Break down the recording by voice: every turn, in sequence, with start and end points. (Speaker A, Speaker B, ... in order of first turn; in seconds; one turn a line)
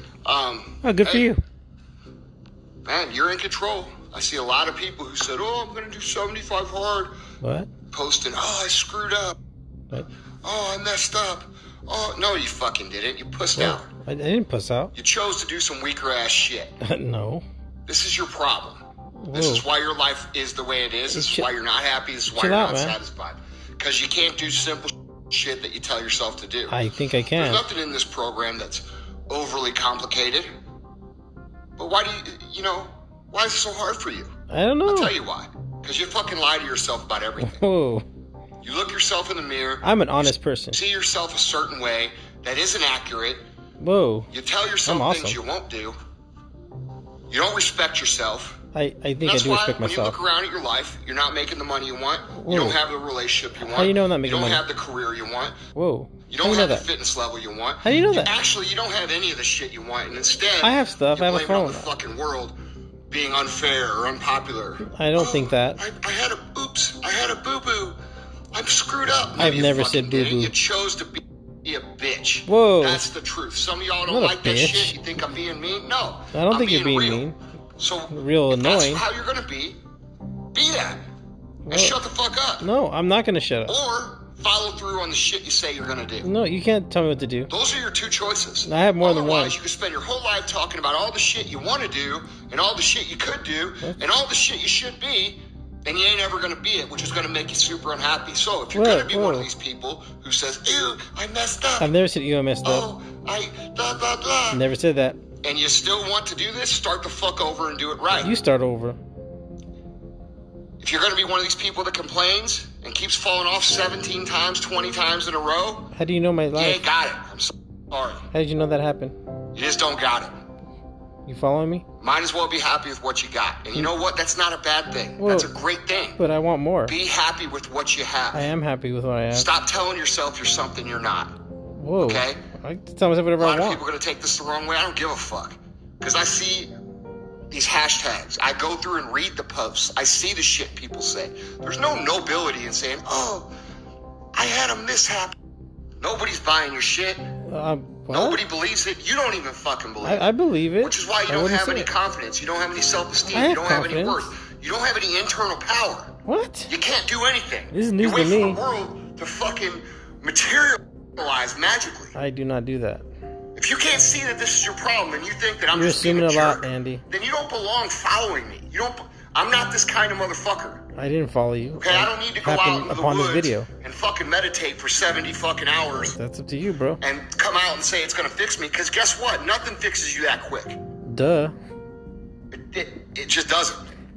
Speaker A: 0.2-1.3
Speaker B: 0.8-1.4
Speaker A: 2.8-7.1
Speaker B: 7.4-7.7
Speaker A: 7.9-9.4
Speaker A: 10.4-13.9
Speaker B: 13.6-14.9
Speaker A: 14.9-16.7
Speaker B: 16.8-17.4
Speaker A: 17.9-18.8
Speaker B: 19.2-19.6
Speaker A: 19.3-26.8
Speaker B: 21.1-21.4
Speaker B: 22.3-22.9
Speaker B: 26.7-27.6
Speaker A: 27.3-30.5
Speaker A: 31.8-34.3
Speaker B: 34.5-35.1
Speaker A: 34.9-37.6
Speaker B: 37.4-38.0
Speaker A: 38.6-39.8
Speaker B: 39.8-40.8
Speaker A: 40.7-43.4
Speaker B: 43.8-44.3
Speaker A: 44.3-46.0
Speaker B: 44.9-45.4
Speaker A: 47.3-48.6
Speaker B: 48.7-50.2
Speaker A: 49.2-55.5
Speaker B: 52.4-52.8
Speaker B: 53.6-54.6
Speaker B: 55.7-56.9
Speaker A: 56.3-62.5
Speaker B: 57.8-58.3
Speaker B: 60.6-61.9
Speaker A: 63.1-68.0
Speaker B: 64.8-65.8
Speaker A: 68.5-77.2
Speaker B: 69.4-70.5
Speaker B: 72.5-73.0
Speaker B: 74.1-75.0
Speaker B: 76.3-77.3
Speaker A: 77.8-79.8
Speaker B: 78.1-79.0
Speaker A: 80.5-81.0
Speaker B: 81.7-82.0
Speaker A: 81.7-82.7
Speaker B: 82.6-83.7
Speaker A: 83.7-86.3
Speaker B: 86.2-87.5
Speaker A: 87.5-101.9
Speaker B: 88.6-89.5
Speaker B: 98.7-99.5
Speaker B: 101.8-102.8
Speaker A: 102.6-104.6
Speaker B: 104.5-105.2
Speaker A: 105.4-108.3
Speaker B: 108.2-109.0
Speaker A: 110.8-115.9
Speaker B: 115.9-116.8
Speaker A: 116.5-118.2
Speaker B: 118.3-119.1
Speaker A: 119.5-120.3
Speaker B: 121.2-121.8
Speaker A: 122.0-126.2
Speaker B: 125.2-125.5
Speaker B: 126.2-126.9
Speaker A: 126.9-128.5
Speaker B: 128.3-129.5
Speaker A: 129.3-131.3
Speaker B: 131.7-133.8
Speaker A: 132.0-132.4
Speaker A: 133.4-136.7
Speaker A: 137.5-143.5
Speaker A: 144.3-145.3
Speaker A: 146.0-147.2
Speaker B: 147.5-148.4
Speaker A: 148.1-150.3
Speaker B: 150.0-151.9
Speaker A: 150.8-156.1
Speaker B: 153.3-154.2
Speaker B: 156.2-156.7
Speaker A: 156.7-162.1
Speaker B: 157.7-158.6
Speaker B: 162.1-163.0
Speaker A: 163.6-170.8
Speaker B: 165.7-167.0
Speaker B: 170.9-173.7
Speaker A: 171.8-176.1
Speaker B: 175.9-177.0
Speaker A: 177.0-180.8
Speaker B: 181.1-181.5
Speaker A: 182.5-183.8